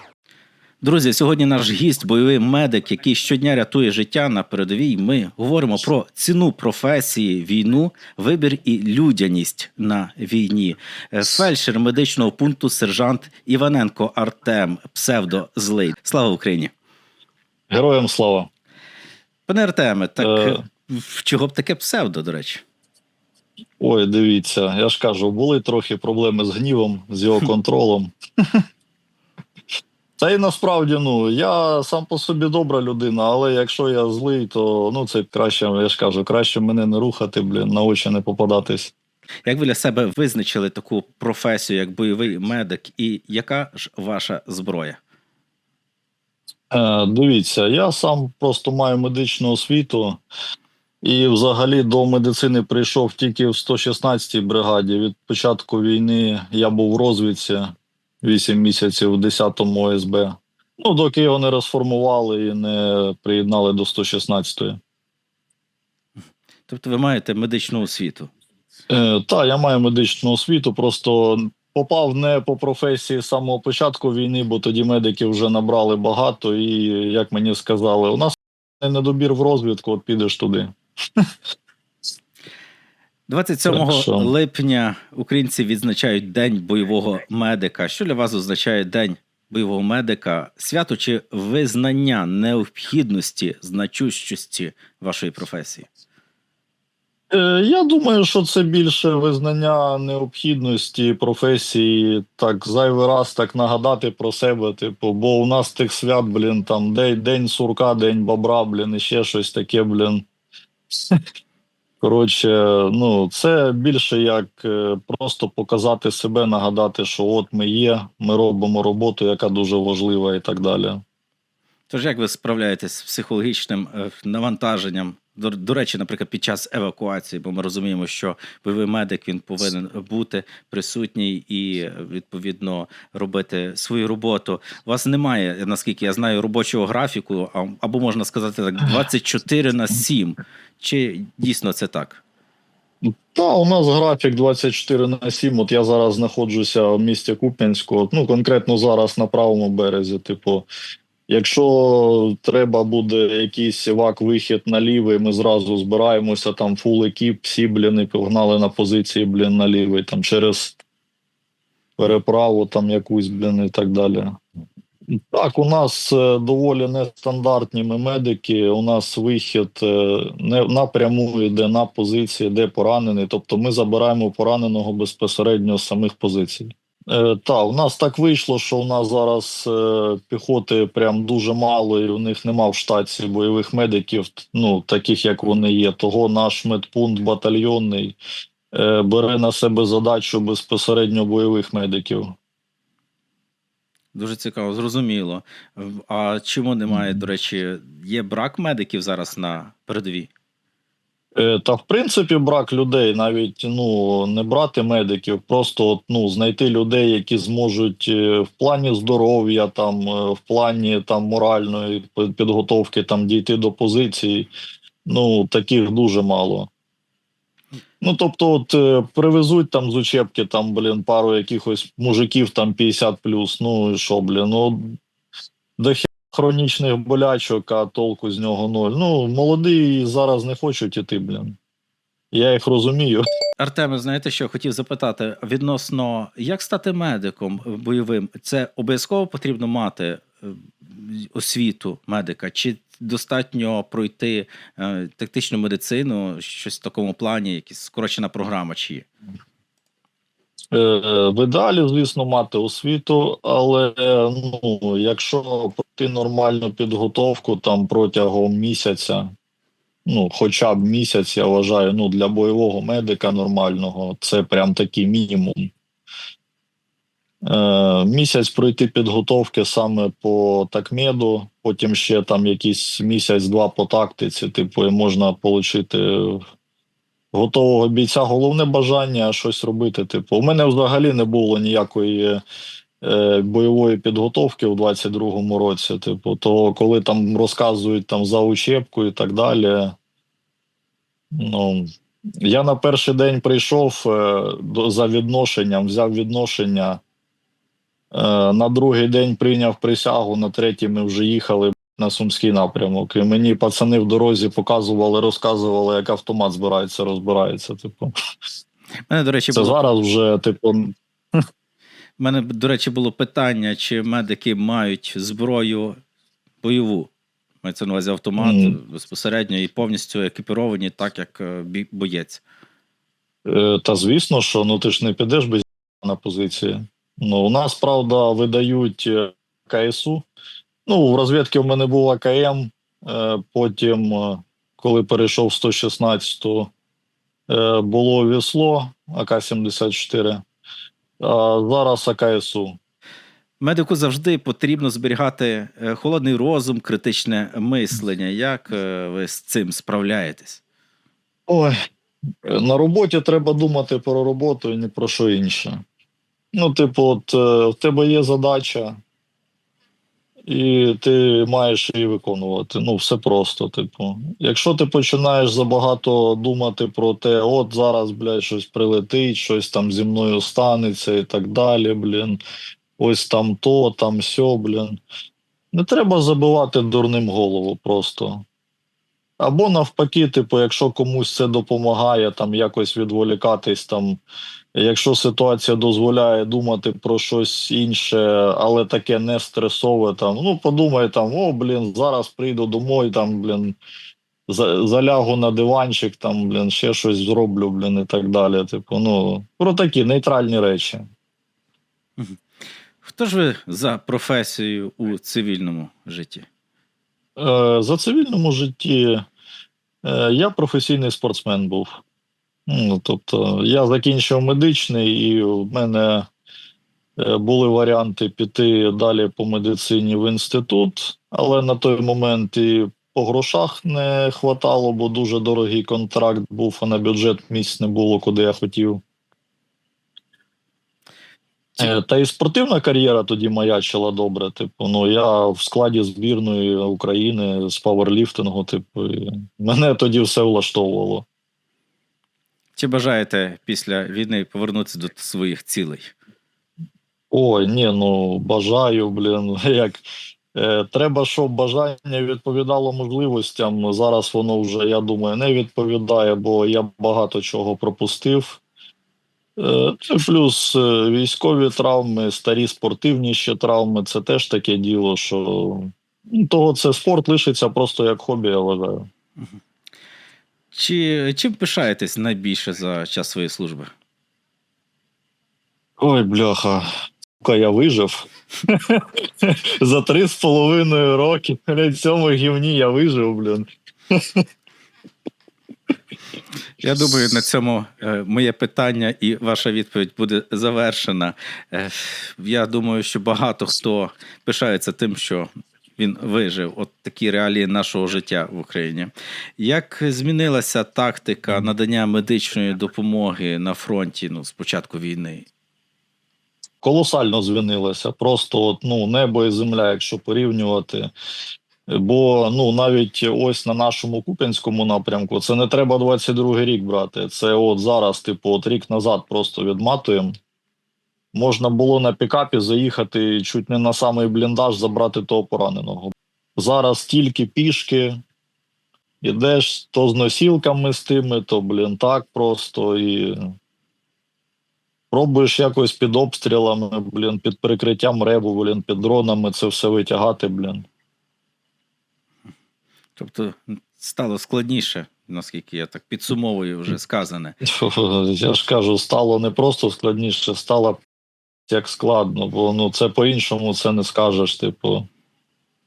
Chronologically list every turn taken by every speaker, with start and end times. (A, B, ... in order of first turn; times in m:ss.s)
0:00.8-0:16.7 A
0:17.7-0:18.5 B
0:19.5-0:22.6 A
0:20.2-0:20.6 B
0:23.8-0:28.6 B
0:30.2-0:38.9 B
0:39.5-0:45.0 A
0:46.7-0:50.2 B
0:51.0-1:04.8 B
1:06.7-1:08.3 A
1:08.9-1:21.3 B
1:23.3-1:35.9 A
1:23.7-1:24.3 B
1:37.3-1:50.2 B
1:52.0-2:01.0 B
2:01.9-2:22.2 A
2:23.0-2:30.7 B
2:31.3-2:40.8 B
2:42.0-2:44.4 B
2:45.1-3:08.2 B
3:08.7-3:12.4 B
3:14.1-3:20.3 A
3:21.4-3:34.5 B
3:35.1-3:36.7 B
3:38.0-3:45.0 B
3:45.8-3:51.6 B
3:52.3-3:53.2 B
3:53.6-4:09.1 A
4:10.7-4:19.3 B
4:20.1-4:25.7 B
4:27.4-4:36.4 B
4:37.3-4:42.4 B
4:43.0-4:50.0 B
4:51.3-4:51.9 B
4:52.4-4:57.0 B
4:58.1-5:08.1 B
5:09.1-5:09.8 A
5:09.5-5:11.0 B
5:12.2-5:16.0 A
5:16.6-5:17.1 A
5:17.6-5:22.4 A
5:18.4-5:18.8 B
5:23.5-5:30.3 B
5:30.9-5:36.7 B
5:37.5-5:40.4 B
5:41.2-5:42.8 B
5:43.6-5:50.6 A
5:51.5-5:51.8 B
5:52.4-5:55.8 B
5:56.5-5:59.0 B
6:00.5-6:12.4 B
6:13.0-6:15.0 B
6:15.7-6:18.4 B
6:19.4-6:24.2 B
6:24.8-6:33.8 B
6:34.5-6:41.0 B
6:43.0-6:46.5 A
6:47.4-6:49.2 B
6:50.0-6:52.0 B
6:52.7-6:56.3 B
6:57.2-7:09.0 B
7:11.8-7:21.2 B
7:22.8-7:26.1 A
7:27.3-7:38.6 B
7:39.6-7:49.1 B
7:50.7-7:53.9 A
7:56.0-7:56.9 B
7:57.4-8:04.4 B
8:06.8-8:25.5 A
8:26.8-8:31.1 B
8:31.9-8:40.3 B
8:41.3-8:48.2 B
8:49.2-8:53.5 B
8:55.1-9:00.8 B
9:03.2-9:07.6 A
9:07.6-9:11.0 B
9:11.7-9:15.1 B